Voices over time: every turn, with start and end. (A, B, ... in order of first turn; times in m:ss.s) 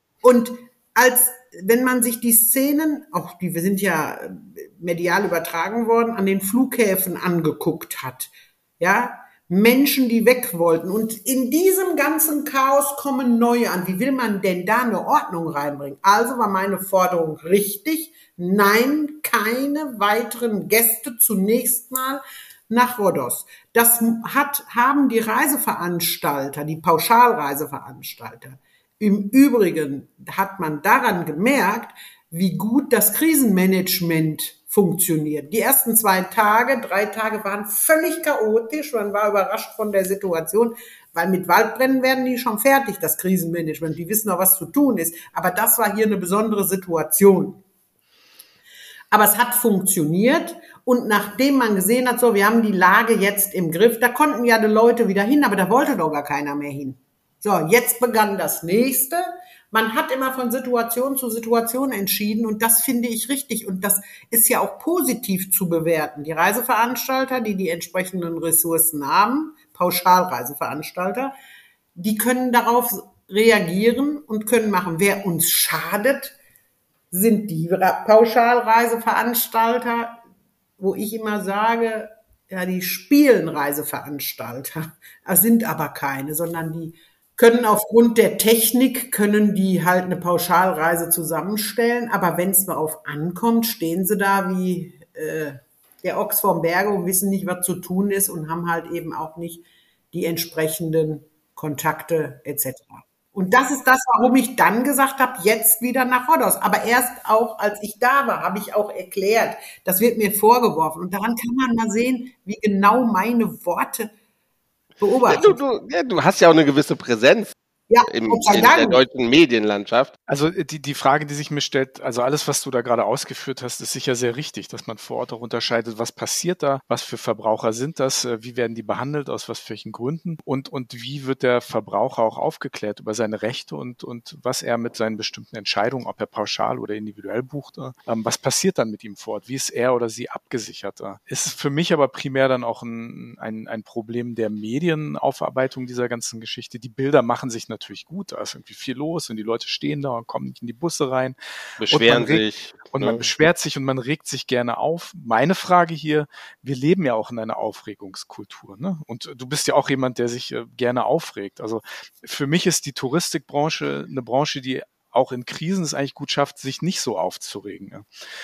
0:00.2-0:47.6 A
0:49.1-1:11.3 A
1:12.0-1:16.4 A
1:17.1-1:20.2 A
1:20.8-1:54.1 A
1:55.0-1:55.6 A
1:55.3-1:57.6 B
1:57.9-1:59.0 A
1:58.1-2:00.1 B
2:00.3-2:31.4 C
2:31.8-2:33.3 B
2:31.9-2:48.1 C